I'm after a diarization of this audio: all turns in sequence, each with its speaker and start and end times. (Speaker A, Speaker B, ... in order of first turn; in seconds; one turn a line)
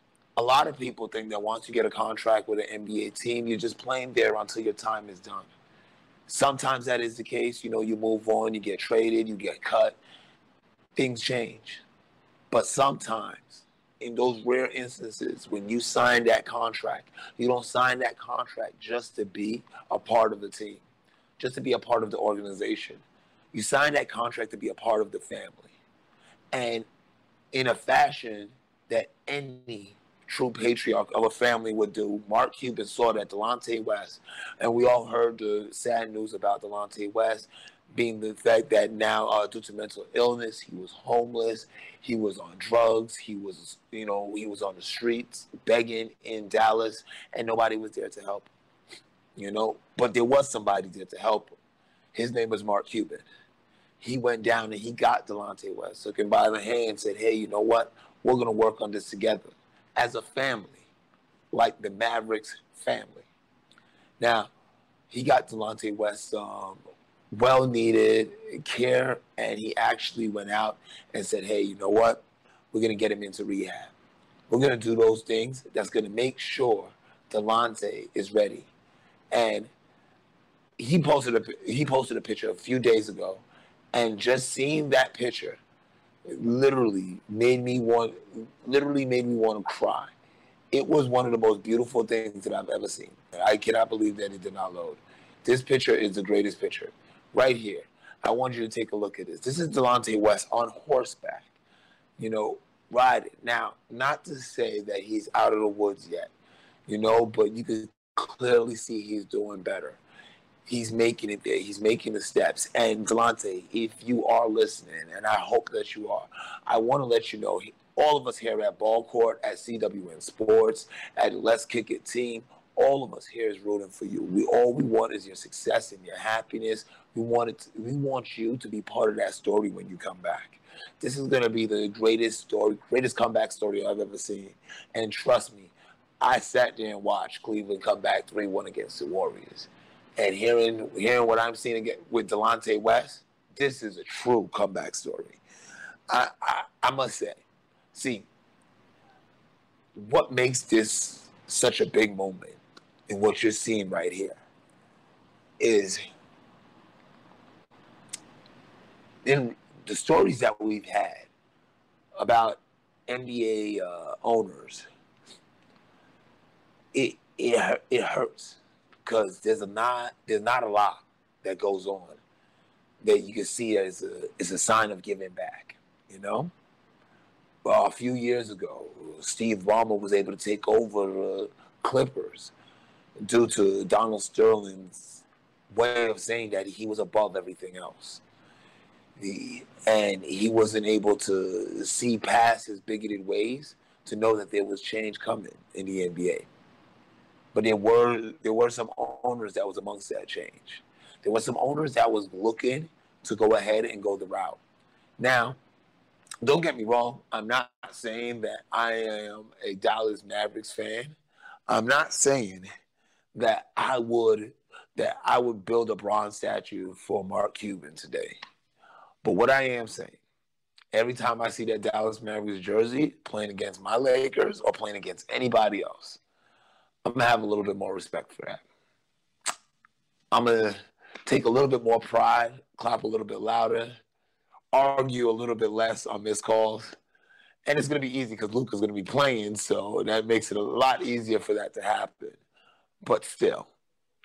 Speaker A: 0.4-5.5
Speaker A: 6.3-10.0
Speaker A: 10.9-11.8
Speaker A: 12.5-20.8
Speaker A: 21.4-25.7
Speaker A: 26.5-26.9
Speaker A: 27.5-48.5
Speaker A: 49.4-51.5
Speaker A: 52.1-53.2
Speaker A: 54.0-60.9
Speaker A: 61.5-63.2
Speaker A: 64.2-64.5
Speaker A: 65.1-73.9
Speaker A: 74.5-78.7
Speaker A: 79.3-79.7
Speaker A: 80.8-85.6
Speaker A: 86.3-90.1
Speaker A: 90.7-101.5
Speaker A: 102.2-106.3
Speaker A: 106.9-110.0
Speaker A: 110.7-145.4
Speaker A: 146.1-148.3
Speaker A: 149.9-154.4
Speaker A: 155.6-156.0
Speaker A: 159.2-161.3
Speaker A: 162.2-164.8
Speaker A: 166.9-172.2
Speaker A: 173.0-176.5
Speaker A: 177.6-182.5
Speaker A: 183.2-188.2
Speaker A: 189.2-196.4
Speaker A: 197.5-204.6
Speaker A: 205.2-205.6
Speaker A: 206.4-211.2
Speaker A: 211.7-212.7
Speaker A: 213.3-218.4
Speaker A: 219.2-220.2
Speaker A: 220.9-226.2
Speaker A: 227.0-228.6
Speaker A: 230.3-234.0
Speaker A: 234.7-236.9
Speaker A: 237.7-242.4
Speaker A: 243.0-243.7